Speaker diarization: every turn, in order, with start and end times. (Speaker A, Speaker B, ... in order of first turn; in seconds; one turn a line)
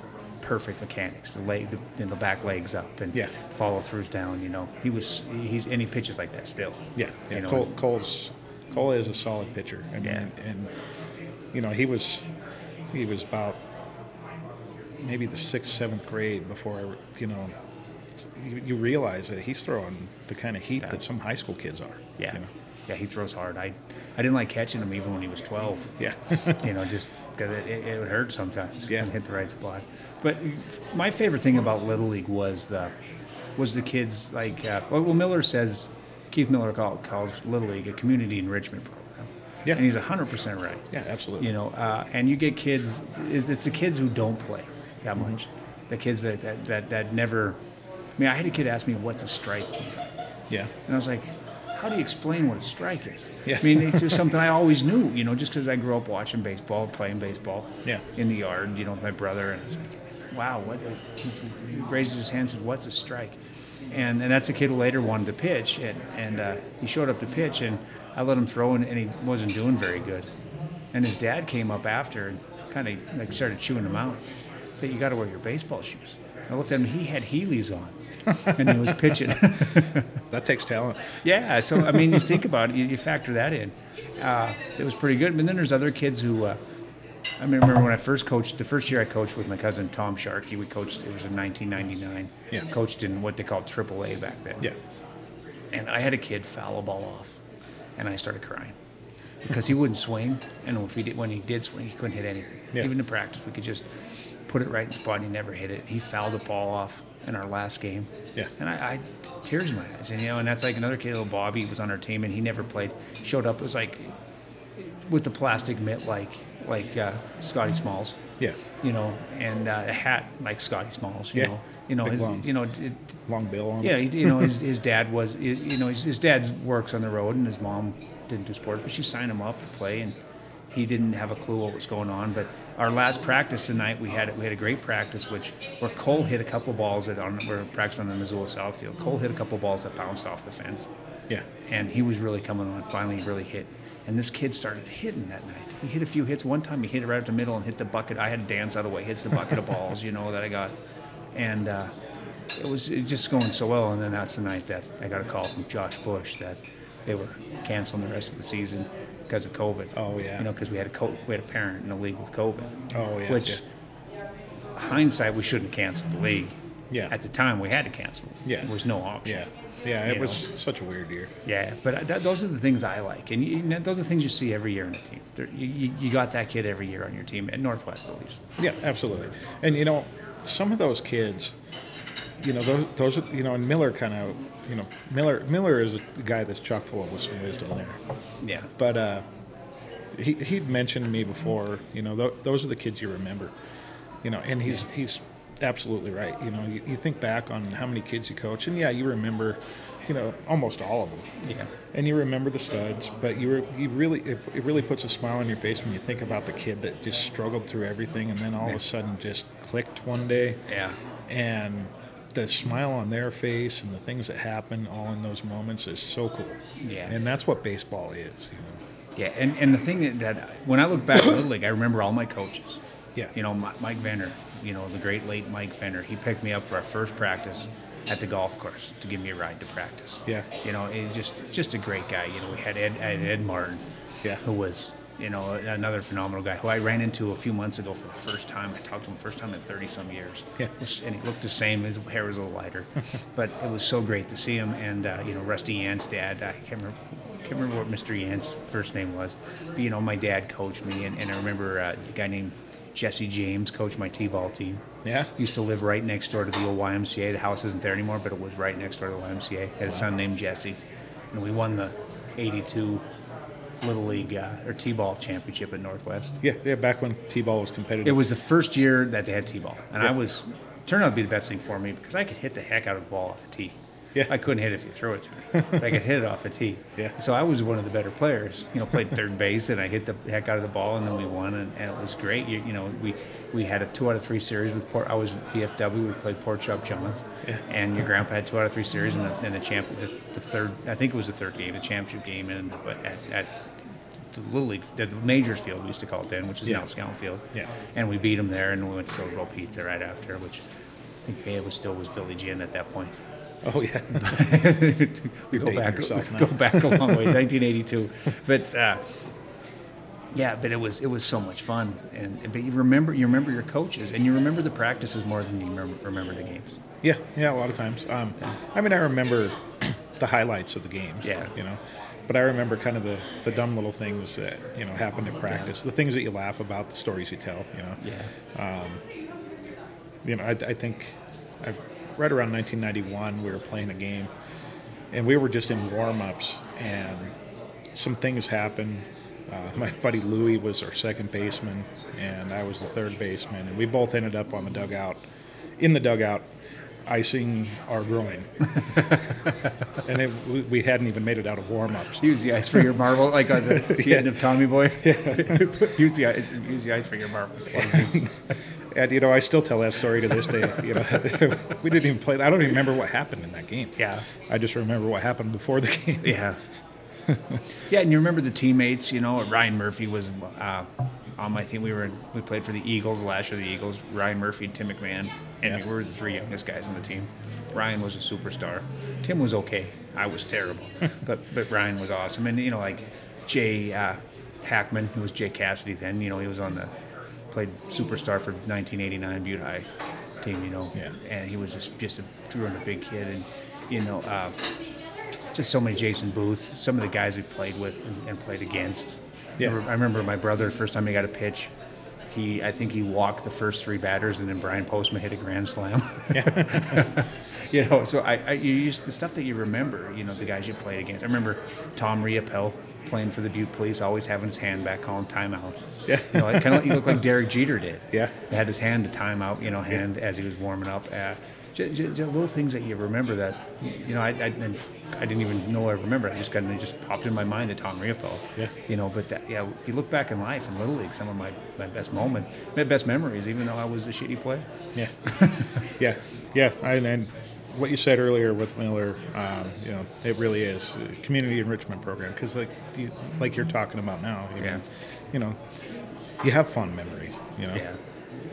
Speaker A: 0.4-7.7
Speaker B: 7.0-10.7
Speaker A: 10.0-10.3
Speaker B: 11.5-12.3
Speaker B: 12.9-13.6
Speaker B: 15.0-17.5
Speaker B: 18.2-22.5
Speaker A: 22.2-26.0
Speaker B: 26.0-26.6
Speaker A: 26.5-32.9
Speaker A: 33.6-40.8
Speaker B: 40.9-41.5
Speaker A: 41.4-47.6
Speaker A: 48.2-50.1
Speaker A: 50.9-63.4
Speaker B: 53.5-54.2
Speaker A: 63.9-70.3
Speaker A: 70.9-74.2
Speaker A: 74.8-80.0
Speaker B: 78.5-79.4
Speaker B: 80.3-81.2
Speaker A: 81.2-86.6
Speaker B: 81.7-82.4
Speaker A: 87.4-94.7
Speaker A: 95.7-97.4
Speaker A: 98.0-98.8
Speaker A: 99.5-103.8
Speaker A: 104.5-114.1
Speaker A: 114.8-118.2
Speaker A: 118.8-123.2
Speaker B: 121.3-122.5
Speaker B: 123.3-124.5
Speaker A: 123.8-130.2
Speaker A: 130.7-140.9
Speaker A: 141.7-150.7
Speaker A: 151.3-151.9
Speaker A: 152.5-163.6
Speaker B: 159.9-160.5
Speaker B: 162.9-163.6
Speaker A: 164.8-166.6
Speaker A: 167.1-169.4
Speaker B: 168.4-171.3
Speaker A: 170.0-170.5
Speaker A: 171.4-178.4
Speaker B: 178.6-181.5
Speaker B: 182.4-188.0
Speaker A: 188.4-188.7
Speaker B: 188.8-189.2
Speaker B: 190.1-193.5
Speaker B: 194.2-201.3
Speaker A: 201.4-201.7
Speaker B: 201.9-210.6
Speaker A: 210.7-211.0
Speaker B: 211.3-218.8
Speaker A: 216.8-217.2
Speaker A: 219.2-222.8
Speaker A: 223.3-233.8
Speaker A: 234.4-254.8
Speaker B: 255.0-255.3
Speaker A: 255.3-260.8
Speaker A: 261.3-263.0
Speaker A: 263.8-266.4
Speaker B: 266.4-268.3
Speaker A: 268.0-293.6
Speaker B: 275.6-275.9
Speaker A: 294.3-300.6
Speaker A: 301.2-303.2
Speaker B: 303.6-304.7
Speaker A: 304.2-309.0
Speaker B: 305.5-307.4
Speaker A: 310.3-316.8
Speaker B: 317.0-328.0
Speaker A: 321.2-321.5
Speaker A: 328.0-328.3
Speaker B: 328.5-329.0
Speaker B: 330.2-334.3
Speaker B: 335.1-337.3
Speaker B: 337.9-345.2
Speaker B: 345.8-346.5
Speaker B: 347.0-349.3
Speaker A: 348.9-349.2
Speaker B: 350.0-352.2
Speaker A: 352.2-358.2
Speaker B: 353.6-354.5
Speaker B: 355.0-355.8
Speaker B: 357.7-358.3
Speaker B: 358.9-366.4
Speaker A: 364.0-364.2
Speaker A: 366.2-366.6
Speaker B: 367.3-367.6
Speaker A: 367.9-386.9
Speaker A: 387.5-389.9
Speaker A: 390.4-394.6
Speaker A: 395.5-401.7
Speaker A: 402.3-434.6
Speaker B: 406.3-407.1
Speaker B: 416.1-417.2
Speaker B: 434.9-435.3
Speaker B: 436.0-445.6
Speaker B: 446.4-447.8
Speaker A: 447.7-448.0